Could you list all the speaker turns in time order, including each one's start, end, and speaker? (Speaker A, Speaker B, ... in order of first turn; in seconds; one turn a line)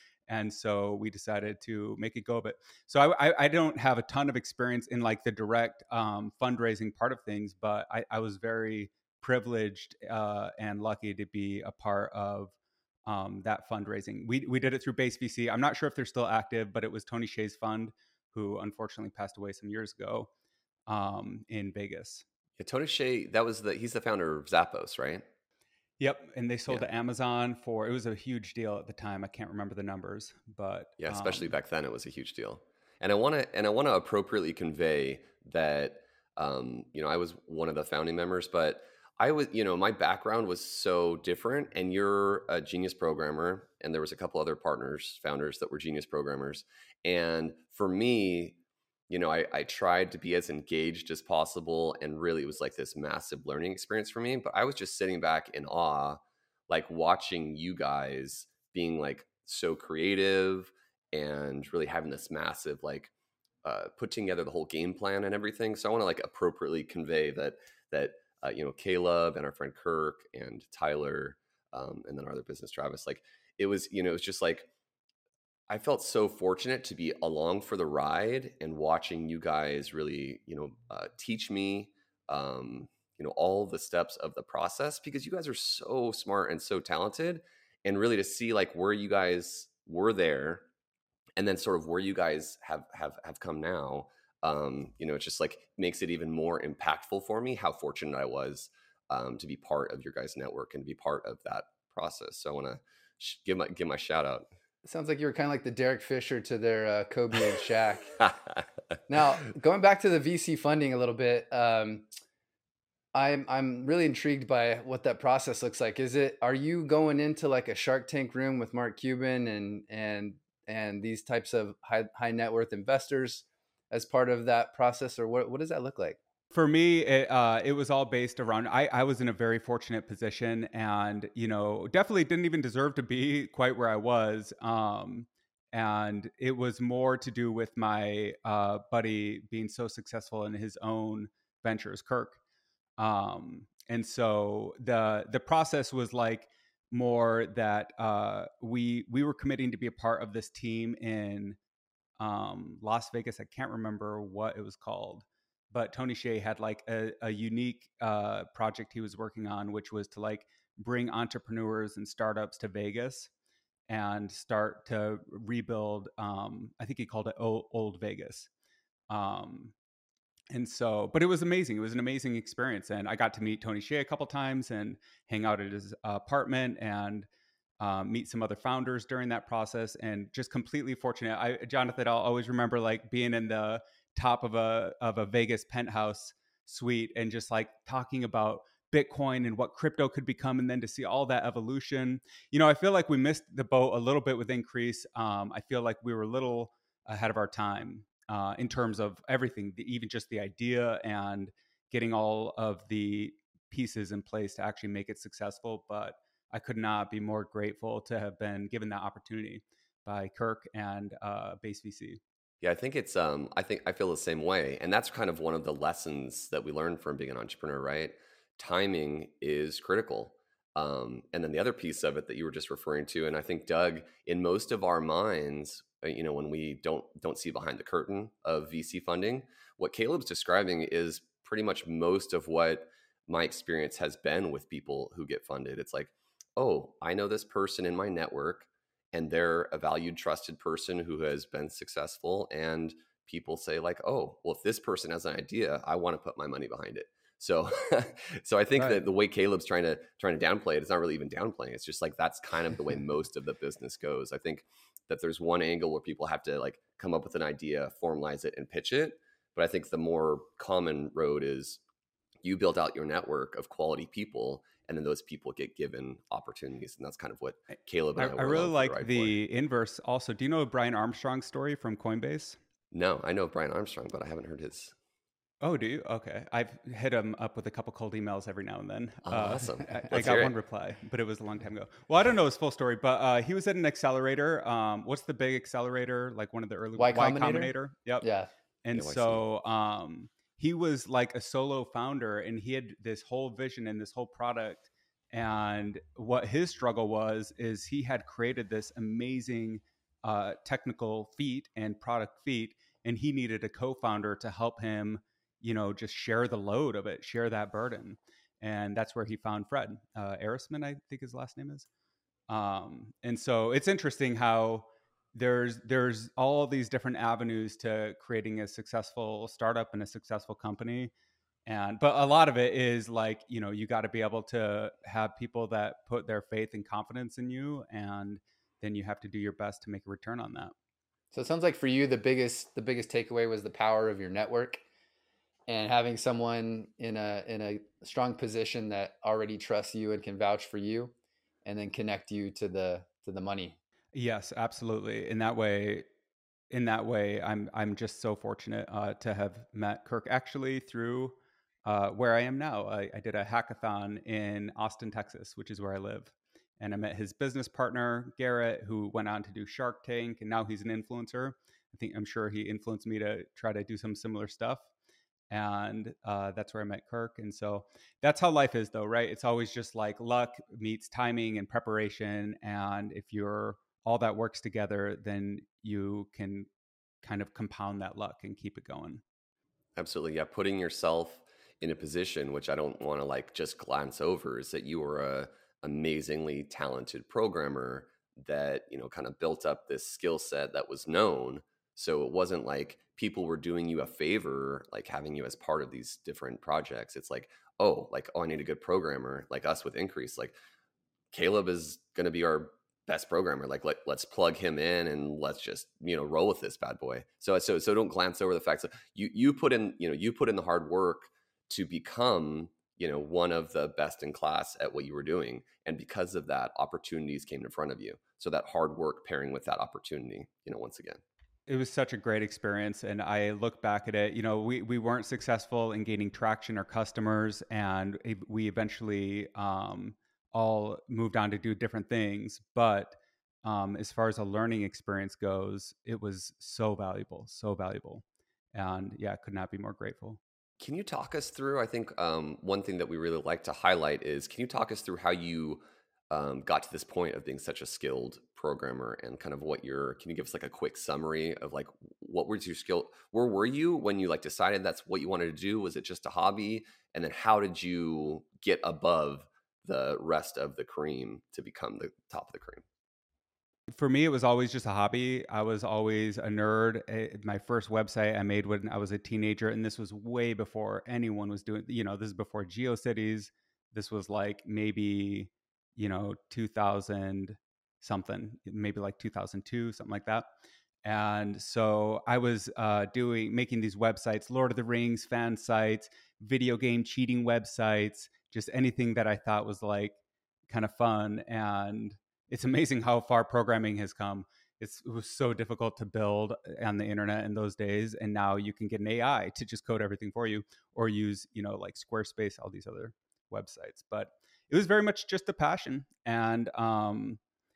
Speaker A: 0.3-12.5
Speaker A: 13.1-20.3
Speaker A: 20.9-22.2
Speaker B: 22.6-25.2
Speaker A: 26.0-31.5
Speaker B: 31.0-48.6
Speaker B: 49.1-63.1
Speaker B: 63.6-74.7
Speaker B: 75.7-90.6
Speaker B: 91.4-104.5
Speaker C: 104.8-108.2
Speaker C: 109.1-112.1
Speaker C: 113.1-126.2
Speaker A: 126.5-142.4
Speaker A: 143.0-151.6
Speaker A: 152.2-163.3
Speaker A: 163.9-168.5
Speaker A: 169.1-169.7
Speaker A: 170.5-177.3
Speaker A: 177.8-212.2
Speaker B: 212.6-261.8
Speaker B: 262.4-269.4
Speaker A: 268.1-272.6
Speaker B: 272.9-274.9
Speaker A: 275.6-288.2
Speaker B: 279.2-280.5
Speaker C: 287.0-288.5
Speaker A: 288.8-311.9
Speaker B: 288.9-289.4
Speaker A: 312.5-321.1
Speaker A: 321.6-330.7
Speaker C: 331.3-334.8
Speaker C: 335.7-341.1
Speaker C: 341.6-343.8
Speaker A: 344.1-346.0
Speaker A: 346.7-364.8
Speaker A: 365.5-376.7
Speaker A: 377.2-379.2
Speaker B: 379.9-400.6
Speaker B: 401.3-421.2
Speaker A: 421.7-438.2
Speaker A: 438.7-440.4
Speaker B: 440.8-462.8
Speaker A: 463.9-480.4
Speaker A: 481.0-490.2
Speaker A: 490.7-507.4